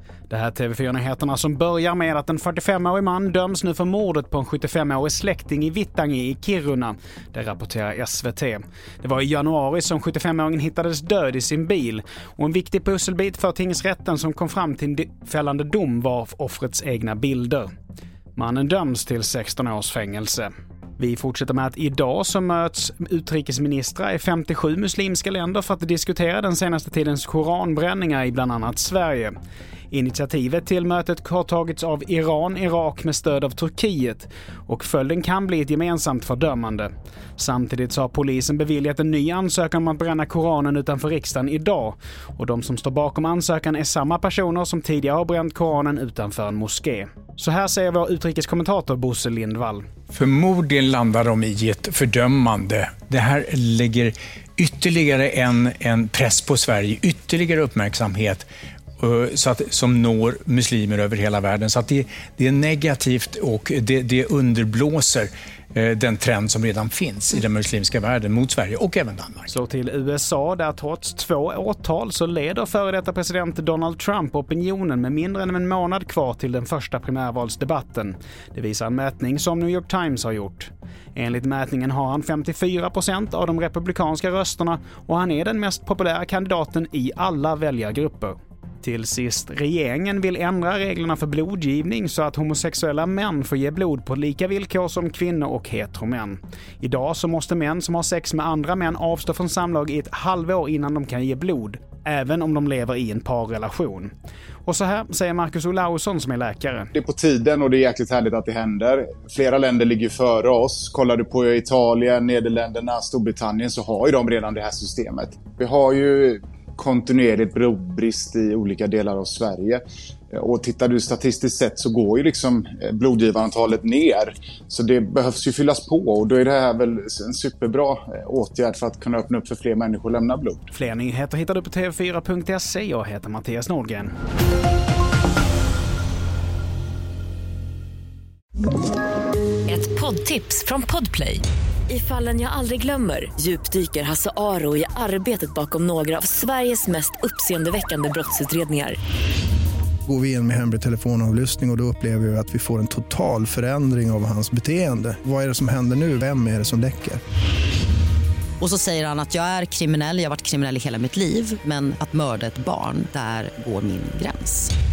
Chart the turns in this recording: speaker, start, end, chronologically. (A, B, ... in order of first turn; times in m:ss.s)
0:00.3-0:17.7 A
0:18.4-0:29.3 A
0:29.9-0:49.9 A
0:50.1-0:58.5 B
0:59.0-1:09.5 B
1:09.5-1:44.1 A
1:44.6-1:46.9 A
1:46.9-2:10.7 C
2:10.7-2:14.1 A
2:19.7-2:29.0 D
2:30.1-2:37.2 E
2:38.6-2:44.7 F